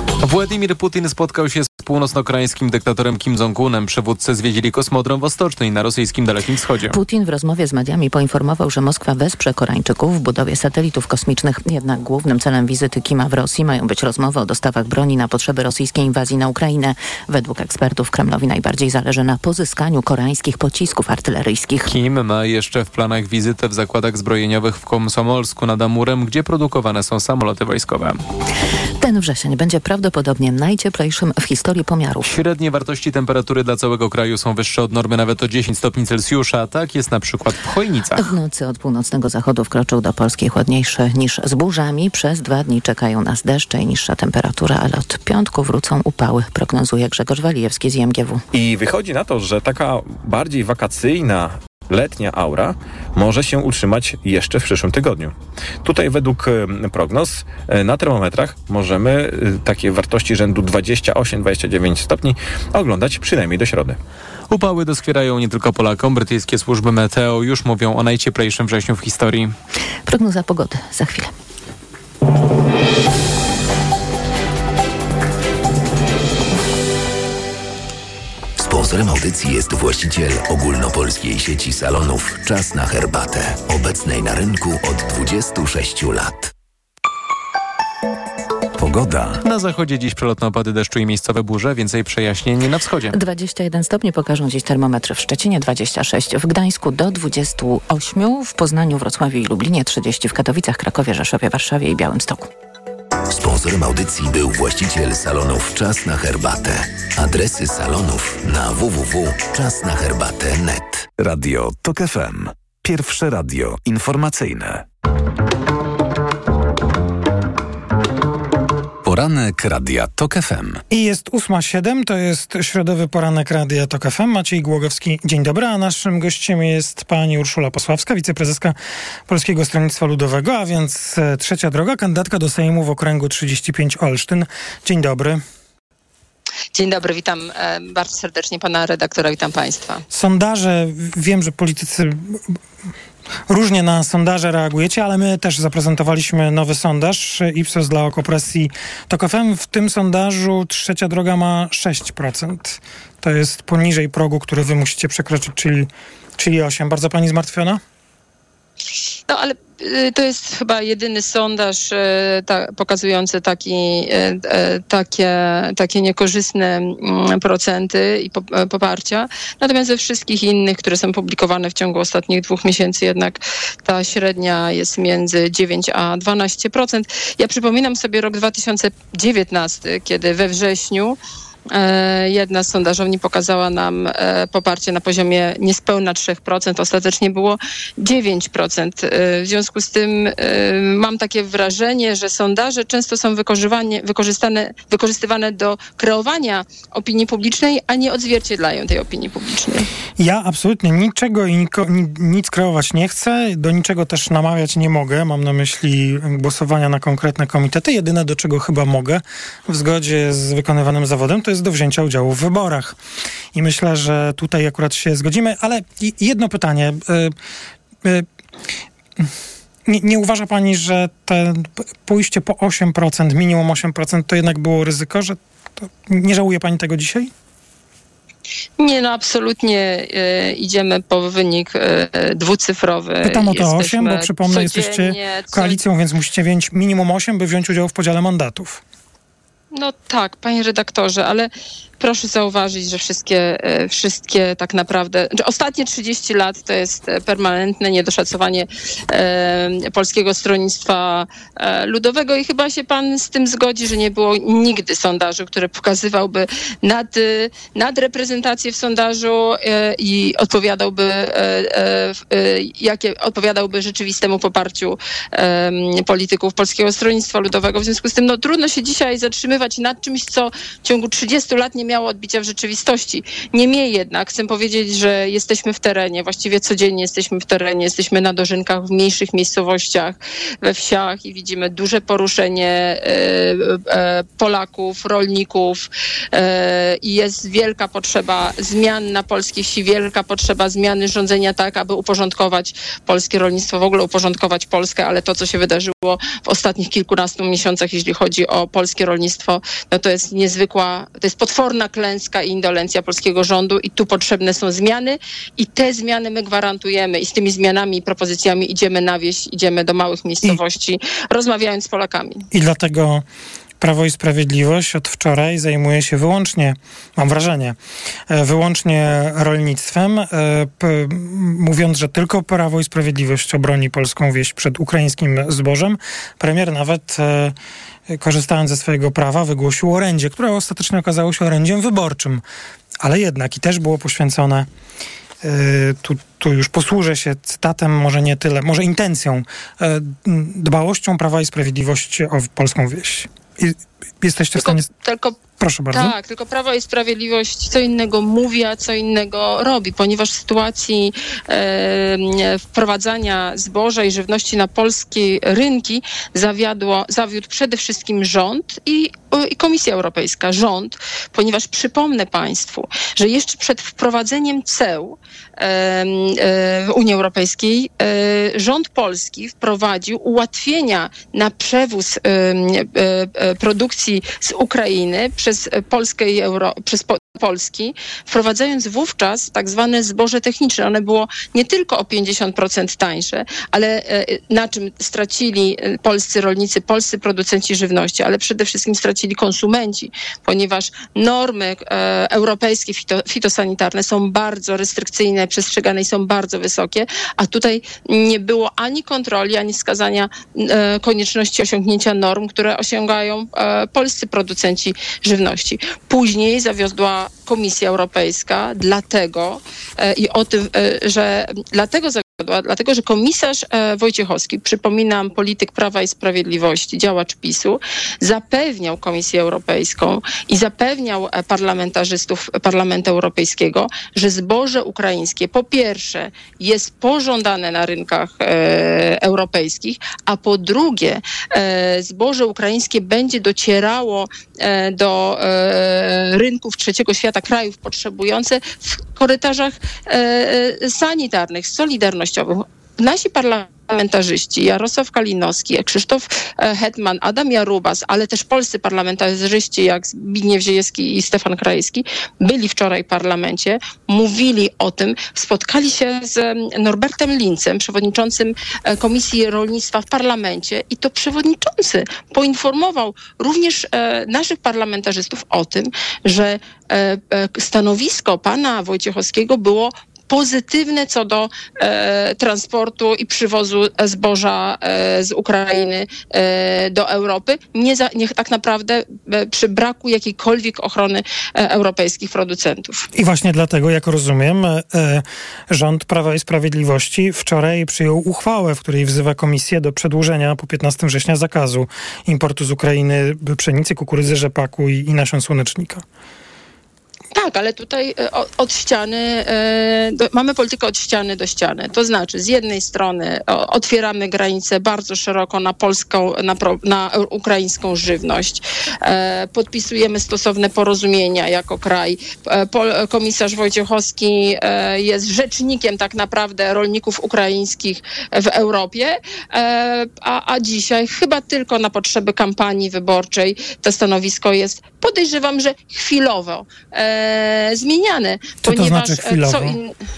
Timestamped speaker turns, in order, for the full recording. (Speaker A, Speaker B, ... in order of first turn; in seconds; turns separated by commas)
Speaker A: 0.2-7.0, Speaker B: 6.9-21.9, Speaker A: 21.9-28.2, Speaker B: 29.0-32.3, Speaker A: 32.2-38.3, Speaker B: 38.1-48.4, Speaker C: 48.5-64.0, Speaker A: 64.5-69.5, Speaker B: 70.0-71.3, Speaker D: 78.6-86.5, Speaker E: 88.8-89.4, Speaker A: 89.4-93.1, Speaker B: 93.1-102.5, Speaker D: 103.3-111.1, Speaker E: 111.2-114.8, Speaker E: 119.0-120.8, Speaker F: 120.9-128.8, Speaker F: 129.3-135.4, Speaker G: 136.7-140.0, Speaker F: 140.1-142.5, Speaker F: 143.5-157.8, Speaker G: 159.3-181.2, Speaker G: 181.7-199.9, Speaker F: 200.2-213.0, Speaker F: 213.5-217.3, Speaker F: 219.9-227.3, Speaker G: 228.8-235.8, Speaker F: 233.2-238.8, Speaker G: 239.7-312.4, Speaker F: 312.5-313.2, Speaker F: 313.8-317.8, Speaker F: 318.3-327.5, Speaker F: 328.1-332.4, Speaker F: 333.0-334.7, Speaker F: 335.4-344.9, Speaker G: 344.6-345.4, Speaker F: 345.6-346.1, Speaker G: 345.9-483.1, Speaker F: 483.1-496.0, Speaker G: 497.3-529.9, Speaker F: 528.6-529.8